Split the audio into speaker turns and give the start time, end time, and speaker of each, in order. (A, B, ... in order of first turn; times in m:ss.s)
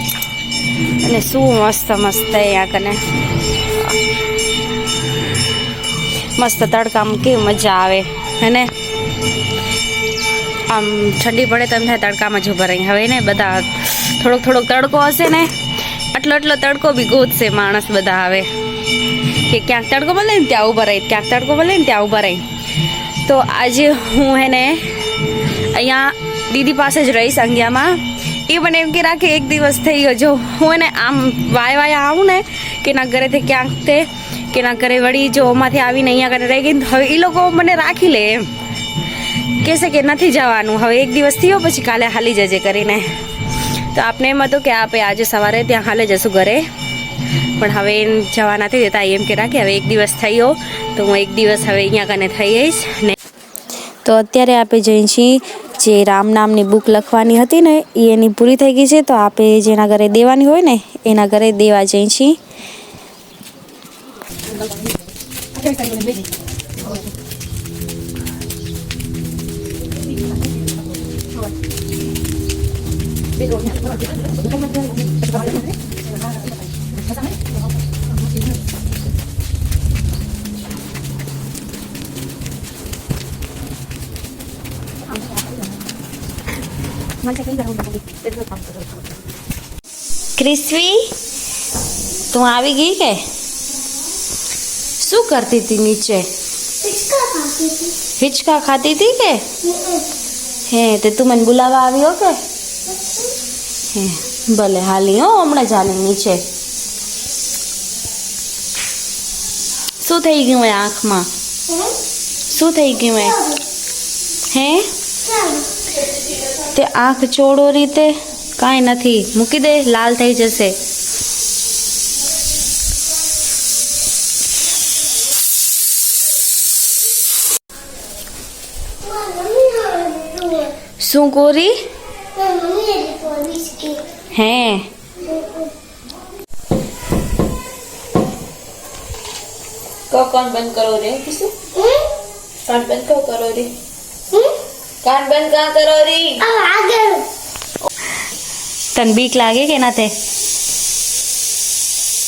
0:00.9-0:04.0 A
0:06.4-0:08.7 A
0:10.7-0:15.5 A
0:16.1-0:38.5 A
0:39.2-0:46.7 A
0:47.5-0:53.1 A
0:54.0-1:02.4 A
1:30.4-1:31.1 A
1:32.3-1:33.2 A
1:35.0-1:36.3 A
1:37.1-1:37.7 B
1:37.9-1:39.6 A
1:40.6-1:42.4 A
1:43.9-1:46.4 A
1:50.0-1:51.3 A
1:52.4-1:53.6 A
1:54.5-1:54.9 A
1:56.4-2:00.8 A
2:09.2-2:10.3 B
2:11.0-2:11.8 A
2:12.5-2:14.0 B
2:14.3-2:14.9 A
2:20.1-2:22.0 B
2:22.6-2:23.8 B
2:24.3-2:27.2 B
2:28.9-2:30.1 A